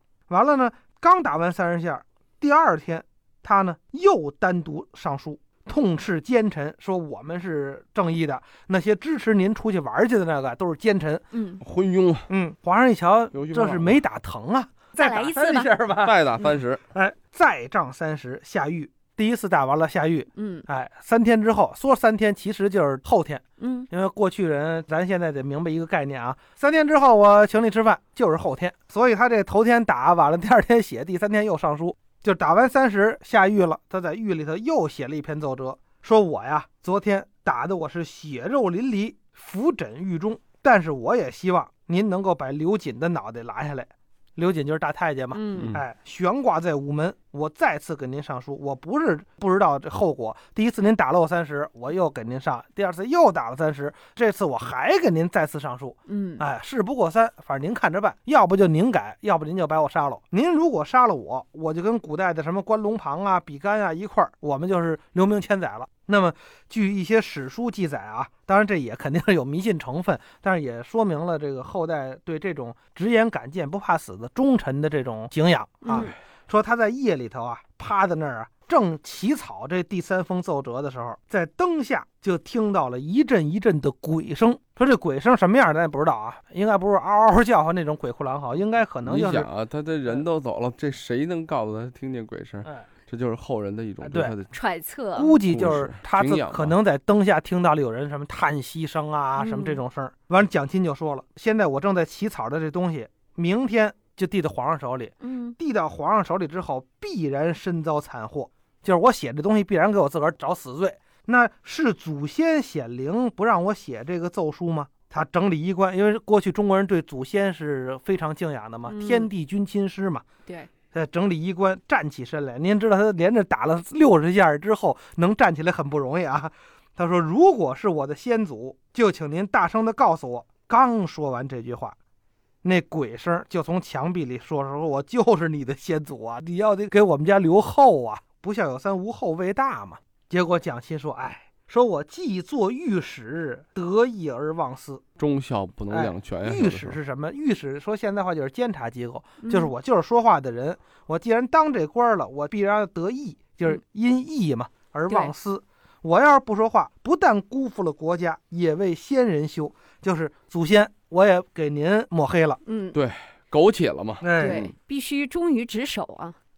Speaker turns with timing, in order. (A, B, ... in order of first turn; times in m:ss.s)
0:00.3-0:11.3 A
0:11.3-0:11.6 B
0:11.6-0:12.3 C
0:12.3-1:29.5 A
0:13.3-0:14.0 C
0:15.0-0:15.7 B
0:16.0-0:16.8 C
0:20.4-0:20.6 B
0:23.6-0:23.9 B
0:45.3-0:45.6 B
0:45.6-0:45.8 C
0:56.1-0:56.4 B
1:15.9-1:16.1 B
1:29.0-1:34.5 C
1:34.0-1:34.4 A
1:34.6-1:35.4 B
1:35.2-2:00.2 A
1:35.5-1:36.8 C
1:39.4-1:39.8 B
1:45.2-1:45.6 B
1:58.9-1:59.3 B
2:00.8-2:12.0 A
2:12.6-2:25.0 A
2:25.2-2:27.0 C
2:25.9-2:42.6 A
2:29.4-2:29.7 B
2:42.7-2:42.9 B
2:42.9-2:44.7 C
2:44.2-2:44.6 A
2:44.4-2:46.4 B